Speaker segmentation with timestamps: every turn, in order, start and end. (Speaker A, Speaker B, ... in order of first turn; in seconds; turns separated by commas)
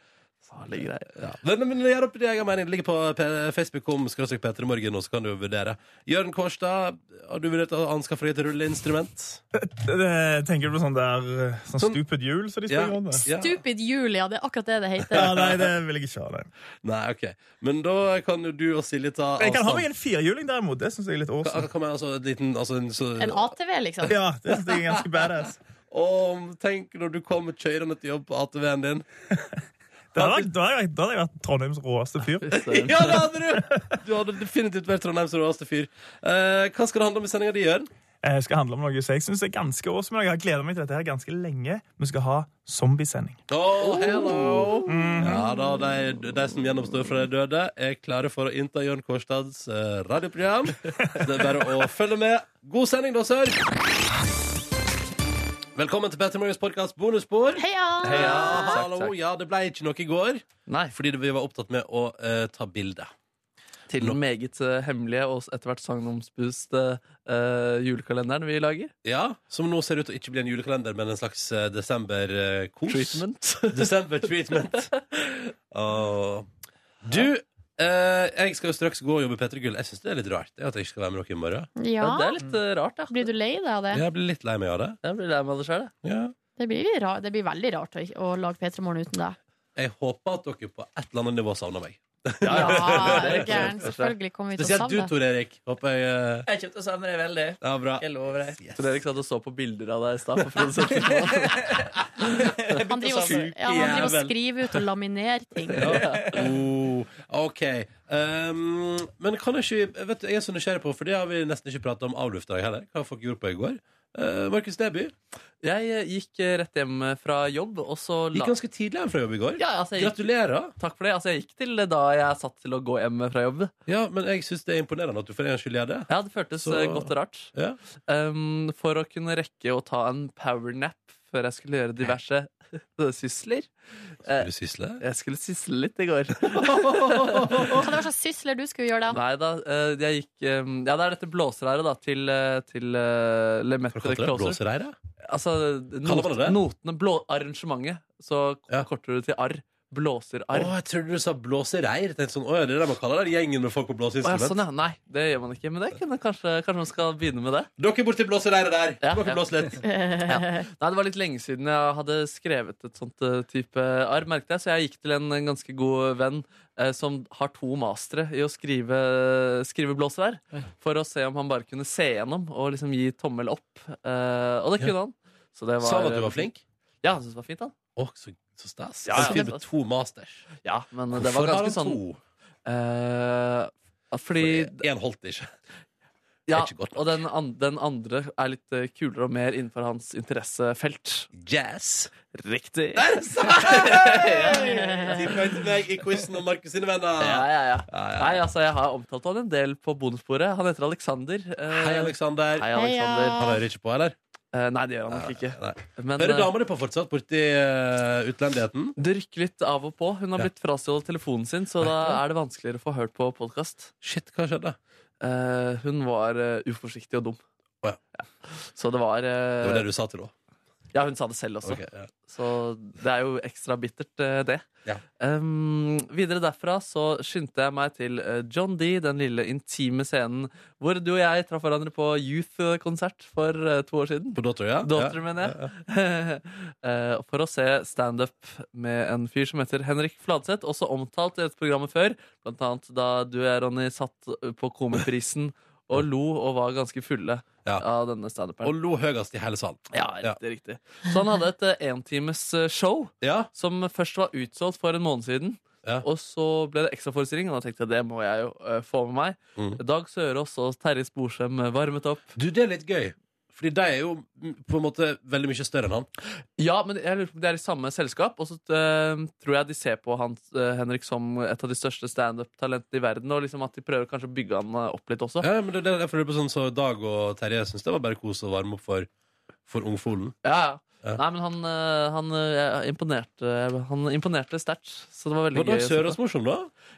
Speaker A: 0.5-1.1, Speaker B: 1.1-9.4, Speaker C: 9.5-13.2, Speaker B: 12.7-13.6, Speaker D: 13.2-15.3, Speaker B: 15.1-15.7, Speaker C: 15.1-16.5, Speaker B: 16.8-19.9, Speaker C: 19.4-21.7, Speaker B: 21.4-23.5, Speaker D: 23.2-24.1, Speaker B: 24.1-29.1, Speaker C: 24.1-25.6, Speaker C: 30.1-33.6, Speaker B: 30.1-30.5, Speaker A: 32.4-33.0, Speaker B: 32.6-37.9, Speaker C: 38.2-43.4, Speaker B: 43.5-53.6, Speaker A: 43.8-44.8, Speaker C: 44.9-45.4, Speaker B: 55.7-63.1, Speaker D: 57.6-58.8, Speaker A: 58.0-59.1, Speaker A: 60.7-60.9, Speaker A: 63.9-68.9, Speaker B: 69.0-74.9, Speaker A: 72.9-73.9, Speaker A: 74.7-75.4, Speaker B: 75.7-76.5, Speaker B: 77.0-81.7, Speaker D: 81.8-82.3, Speaker A: 82.0-83.3, Speaker D: 83.1-84.0, Speaker B: 83.9-85.0, Speaker A: 85.0-85.9, Speaker B: 86.0-86.3, Speaker D: 86.6-89.4, Speaker B: 89.8-93.7, Speaker A: 92.4-94.1, Speaker D: 92.5-95.1, Speaker B: 94.6-96.5, Speaker E: 96.4-98.6, Speaker B: 97.6-99.0, Speaker A: 98.8-101.6, Speaker B: 100.6-101.1, Speaker E: 101.1-104.2, Speaker D: 102.8-105.8, Speaker B: 103.2-104.3, Speaker B: 105.8-115.1, Speaker A: 105.8-106.4, Speaker E: 105.9-106.4, Speaker A: 115.6-118.5, Speaker B: 118.3-120.7, Speaker A: 119.6-120.2, Speaker A: 120.8-123.7, Speaker B: 123.9-127.8, Speaker A: 126.1-127.5, Speaker A: 128.1-133.7, Speaker A: 134.2-134.5, Speaker B: 134.3-135.0, Speaker A: 135.0-137.8, Speaker B: 136.4-137.9, Speaker D: 137.7-139.2, Speaker A: 139.1-144.6, Speaker B: 143.9-144.9, Speaker A: 145.3-150.7, Speaker B: 146.0-146.6, Speaker B: 150.5-154.6, Speaker A: 154.2-157.7, Speaker B: 157.8-159.8, Speaker A: 159.0-159.7, Speaker D: 159.8-160.7, Speaker A: 160.2-176.5, Speaker B: 175.8-176.6, Speaker A: 177.0-177.7, Speaker B: 177.9-180.5, Speaker A: 179.1-179.6, Speaker A: 180.6-182.0, Speaker B: 181.1-182.2, Speaker A: 182.7-184.8, Speaker B: 184.3-185.5, Speaker A: 186.5-191.3, Speaker B: 186.5-187.1, Speaker B: 191.3-192.1, Speaker A: 192.3-195.4, Speaker B: 192.9-198.4, Speaker D: 194.5-195.2, Speaker A: 197.2-203.4, Speaker B: 201.7-202.7, Speaker D: 202.7-203.6, Speaker B: 203.3-204.2, Speaker A: 204.5-206.5, Speaker B: 205.1-208.9, Speaker A: 209.0-213.9, Speaker B: 211.8-212.2, Speaker B: 214.0-214.8, Speaker A: 215.2-217.4, Speaker A: 218.2-219.8, Speaker B: 219.6-220.3, Speaker A: 220.9-224.6, Speaker B: 221.6-222.1, Speaker A: 225.2-248.7, Speaker B: 234.3-235.7, Speaker B: 248.6-250.4, Speaker A: 249.9-262.3, Speaker B: 253.2-253.5, Speaker B: 262.4-266.1, Speaker A: 266.6-275.4, Speaker B: 275.4-279.1, Speaker B: 279.6-280.4, Speaker A: 280.4-286.2, Speaker B: 285.5-286.7